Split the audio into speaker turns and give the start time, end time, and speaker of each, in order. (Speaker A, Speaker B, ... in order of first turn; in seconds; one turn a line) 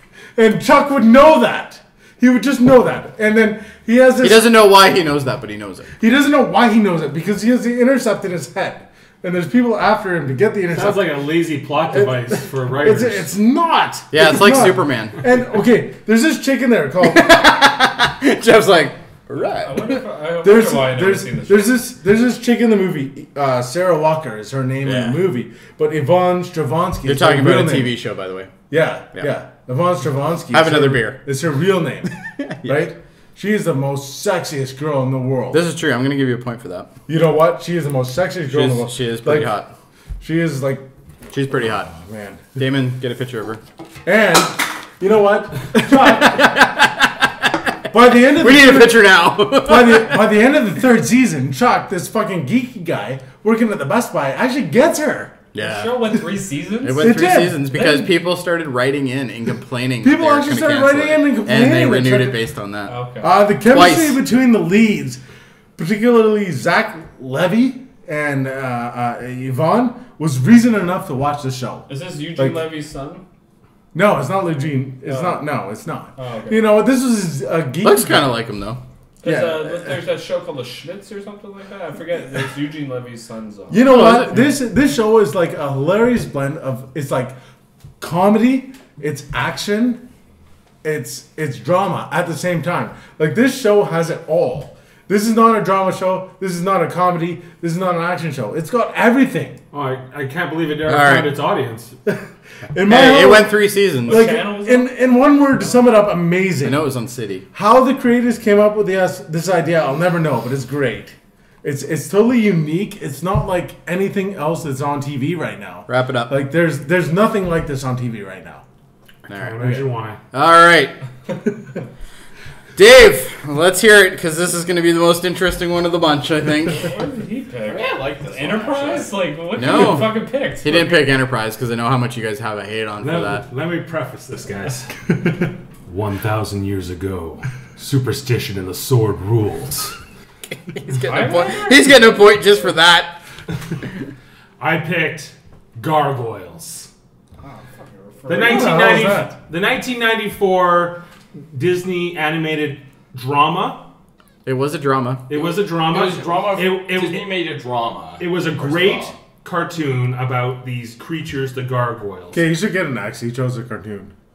Speaker A: 0.4-4.5
Speaker B: 4.2-5.9
Speaker A: 6.0-11.2
Speaker C: 10.7-13.3
Speaker A: 11.9-17.6
Speaker B: 14.1-15.2
Speaker B: 17.0-20.0
Speaker D: 19.6-21.7
Speaker A: 20.4-28.0
Speaker B: 24.8-25.2
Speaker B: 27.1-28.5
Speaker A: 28.7-35.6
Speaker B: 30.5-31.2
Speaker B: 32.4-32.9
Speaker B: 35.5-36.9
Speaker A: 37.1-39.5
Speaker B: 38.5-39.7
Speaker A: 40.2-40.9
Speaker B: 41.3-41.9
Speaker A: 41.7-42.5
Speaker B: 42.6-43.6
Speaker A: 44.0-46.7
Speaker B: 45.8-50.3
Speaker A: 47.9-55.4
Speaker B: 55.5-56.0
Speaker D: 55.6-57.3
Speaker B: 56.8-63.0
Speaker A: 57.0-58.0
Speaker A: 60.0-62.4
Speaker D: 62.9-63.4
Speaker A: 63.2-65.2
Speaker B: 63.6-64.2
Speaker A: 65.8-72.6
Speaker D: 71.9-73.2
Speaker A: 73.9-78.4
Speaker D: 75.0-75.5
Speaker D: 76.2-76.8
Speaker B: 77.8-78.8
Speaker D: 79.2-84.0
Speaker A: 79.2-79.9
Speaker A: 83.7-87.3
Speaker B: 83.8-84.5
Speaker A: 88.0-90.0
Speaker A: 90.8-99.6
Speaker C: 99.7-102.0
Speaker B: 100.9-101.3
Speaker A: 102.1-106.8
Speaker B: 102.8-104.3
Speaker D: 104.1-104.9
Speaker B: 106.6-107.5
Speaker A: 107.5-118.6
Speaker B: 115.9-116.3
Speaker B: 119.3-119.8
Speaker C: 119.4-120.2
Speaker B: 120.3-121.0
Speaker B: 122.8-126.8
Speaker D: 126.7-131.1
Speaker E: 127.7-129.1
Speaker B: 129.6-133.4
Speaker C: 133.0-135.3
Speaker C: 135.9-140.0
Speaker B: 140.7-143.2
Speaker D: 140.9-141.9
Speaker C: 144.6-146.9
Speaker D: 147.4-148.9
Speaker C: 148.3-153.8
Speaker A: 148.4-149.3
Speaker B: 154.5-155.3
Speaker C: 155.3-157.4
Speaker E: 155.4-159.2
Speaker C: 158.2-162.4
Speaker A: 162.3-164.1